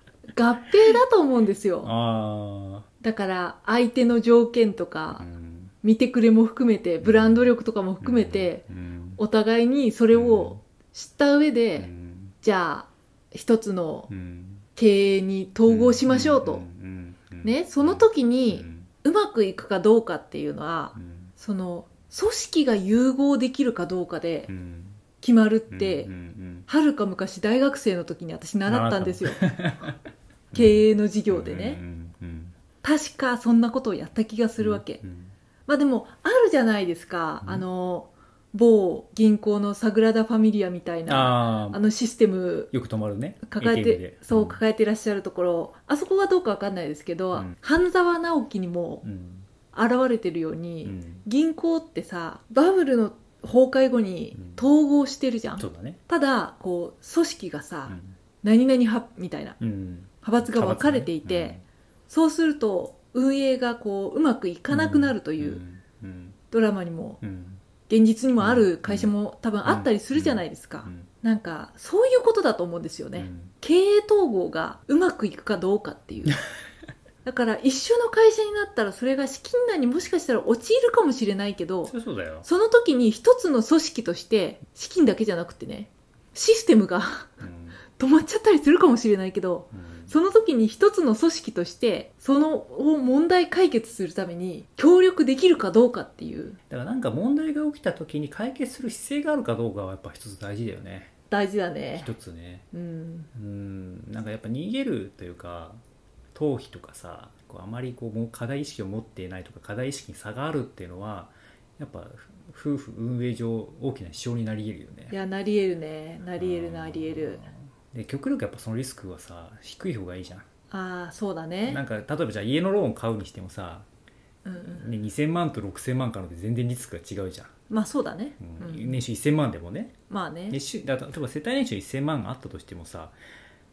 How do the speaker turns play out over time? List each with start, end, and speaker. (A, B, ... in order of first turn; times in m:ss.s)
0:00.4-0:01.9 A
0:01.8-0:02.9 B
0:03.0-0:05.2 A
0:05.2-0:05.7 B
0:05.8-0:08.6 A
0:07.0-0:07.5 B
0:08.0-0:09.2 B
0:09.2-0:11.9 A
0:10.1-0:10.6 B
0:11.8-0:12.4 B
0:12.4-0:14.1 A
0:14.1-0:14.6 B
0:14.8-0:16.6 A
0:15.7-0:18.9 B
0:17.4-0:24.5 A
0:21.0-0:21.3 B
0:24.5-0:25.0 B
0:25.2-0:26.1 A
0:25.7-0:26.7 B
0:26.7-0:29.5 A
0:28.7-0:30.0 B
0:30.5-0:31.8 A
0:30.5-0:32.6 B
0:32.8-0:35.0 A
0:34.6-0:35.3 B
0:35.7-0:42.7 A
0:41.1-0:41.8 B
0:42.7-0:44.6 B
0:43.4-0:49.0 A
0:49.0-0:49.5 B
0:49.7-0:59.6 A
0:50.8-0:51.3 B
0:54.4-0:54.6 B
0:55.6-0:56.0 B
0:57.9-0:58.2 B
0:59.6-1:01.6 B
1:00.2-1:01.6 A
1:02.1-1:05.6 A
1:04.7-1:06.4 B
1:06.5-1:07.2 A
1:07.2-1:07.6 B
1:07.9-1:16.4 A
1:08.4-1:09.1 B
1:09.6-1:11.1 B
1:13.2-1:13.5 B
1:17.2-1:21.9 A
1:21.9-1:22.5 B
1:22.4-1:27.4 A
1:27.4-1:27.8 B
1:28.0-1:36.6 A
1:29.7-1:30.1 B
1:36.7-1:41.1 B
1:41.3-1:42.1 A
1:42.0-1:42.7 B
1:42.7-1:43.3 A
1:43.3-1:45.8 B
1:46.3-1:55.2 B
1:55.1-1:57.5 A
1:56.4-2:00.4 B
2:00.7-2:01.8 A
2:01.7-2:03.9 B
2:04.4-2:04.9 A
2:04.6-2:07.5 B
2:07.7-2:09.0 A
2:08.4-2:10.0 B
2:10.1-2:10.6 A
2:10.5-2:13.2 B